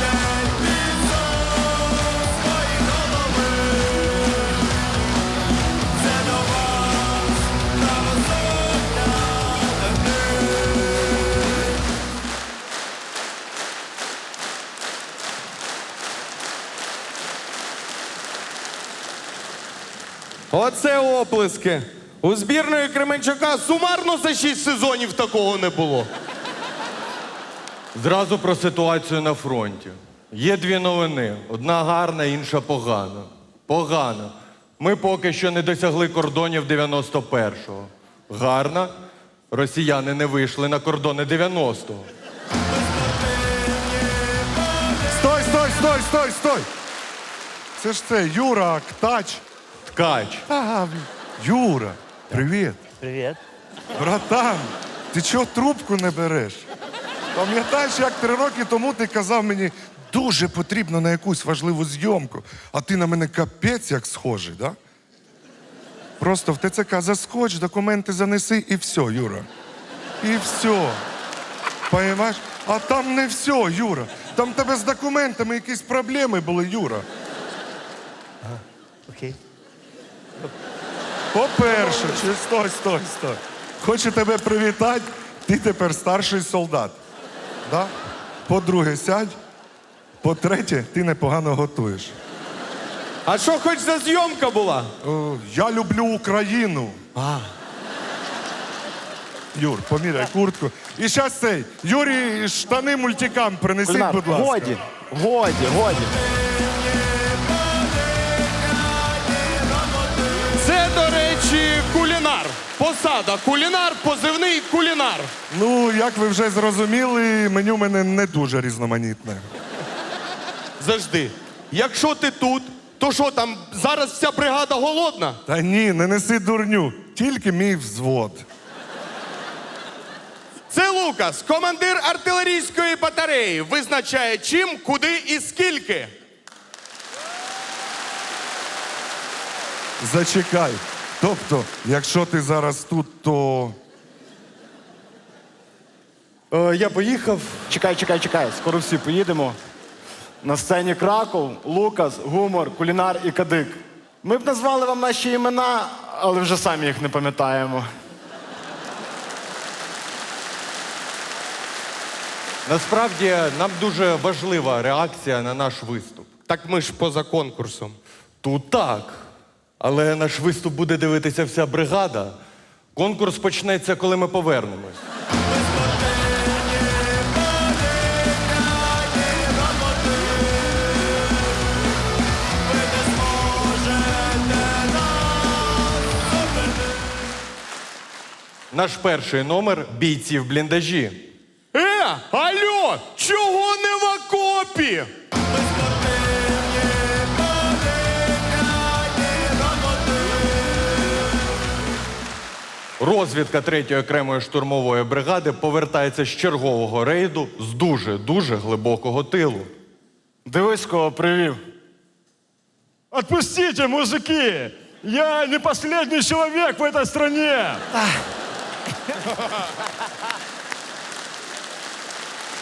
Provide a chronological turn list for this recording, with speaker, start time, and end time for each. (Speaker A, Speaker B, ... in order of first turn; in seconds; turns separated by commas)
Speaker A: 20.5-26.1, Speaker B: 27.9-38.9, Speaker B: 39.5-42.1, Speaker C: 45.1-46.7, Speaker C: 47.8-49.4, Speaker B: 49.9-50.5, Speaker C: 50.5-52.8, Speaker C: 54.0-56.7, Speaker C: 57.4-64.8, Speaker C: 66.2-69.5, Speaker C: 70.2-71.0, Speaker C: 71.9-77.0, Speaker C: 81.3-87.0, Speaker C: 87.7-87.9, Speaker C: 88.5-89.3, Speaker C: 90.2-92.1, Speaker A: 93.3-94.9, Speaker C: 95.0-97.0, Speaker A: 97.2-97.5, Speaker C: 99.5-104.8, Speaker D: 103.8-106.2, Speaker A: 110.6-115.3, Speaker C: 115.5-119.5, Speaker A: 120.8-125.4, Speaker C: 125.5-128.4, Speaker A: 130.7-136.1, Speaker C: 140.0-143.8, Speaker B: 146.5-147.7, Speaker D: 147.7-149.6, Speaker D: 150.4-157.9, Speaker B: 162.7-166.3, Speaker A: 166.5-168.0, Speaker B: 168.4-169.3, Speaker B: 169.8-172.4, Speaker B: 172.9-175.0, Speaker B: 188.7-191.3, Speaker A: 191.7-195.1, Speaker B: 203.0-209.7, Speaker D: 210.4-211.6, Speaker E: 213.1-217.8